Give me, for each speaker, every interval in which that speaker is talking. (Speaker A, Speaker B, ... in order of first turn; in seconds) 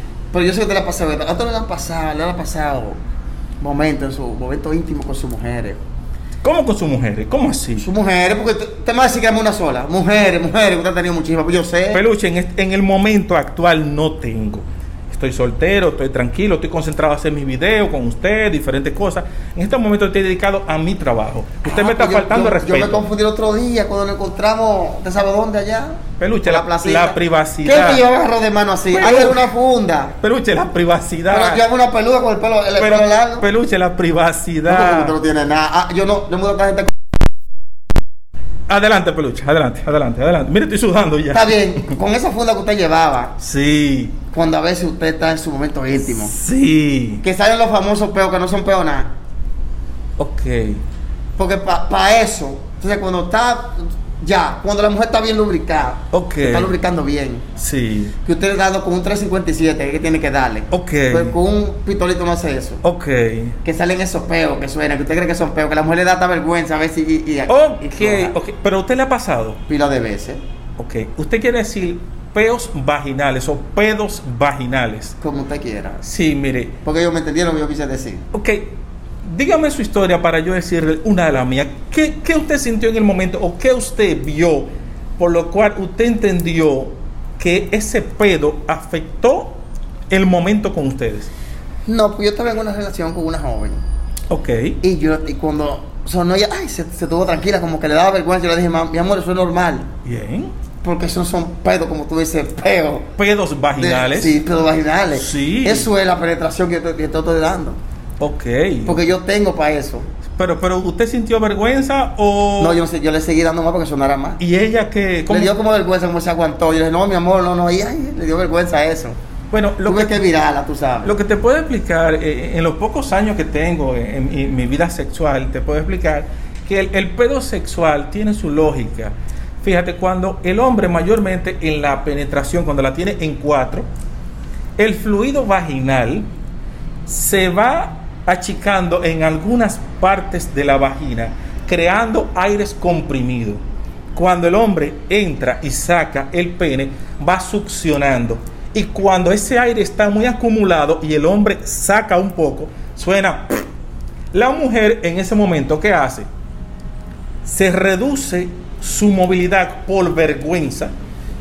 Speaker A: 0.3-3.0, 3.6-5.8, 7.8-12.0, 21.6-30.1, 31.3-33.5, 34.7-36.9, 41.3-43.4, 44.3-46.3, 47.2-49.1, 51.4-57.5, 58.2-62.8, 63.6-68.4, 69.7-70.4, 75.2-76.0, 76.8-78.2, 91.8-93.8, 94.8-99.9, 100.8-103.1, 103.8-107.8, 108.8-110.0, 112.6-114.4, 115.3-119.2, 119.8-121.1
Speaker B: 6.4-7.9, 11.9-23.0, 26.2-28.0, 28.9-29.5, 30.2-31.6, 32.8-35.1, 38.7-41.9, 43.4-44.2, 46.2-47.2, 50.2-50.8, 56.1-56.7, 57.6-58.1, 60.7-61.4, 62.8-63.6, 67.5-69.6, 70.8-75.2, 76.0-76.7, 78.3-91.3, 94.3-94.8, 100.0-100.5, 103.2-104.4, 105.1-105.9, 108.2-109.0, 110.3-112.8, 114.4-115.5, 119.5-120.3, 121.0-133.9, 134.8-136.3, 137.0-143.6, 144.1-153.6, 154.3-156.3, 157.4-160.9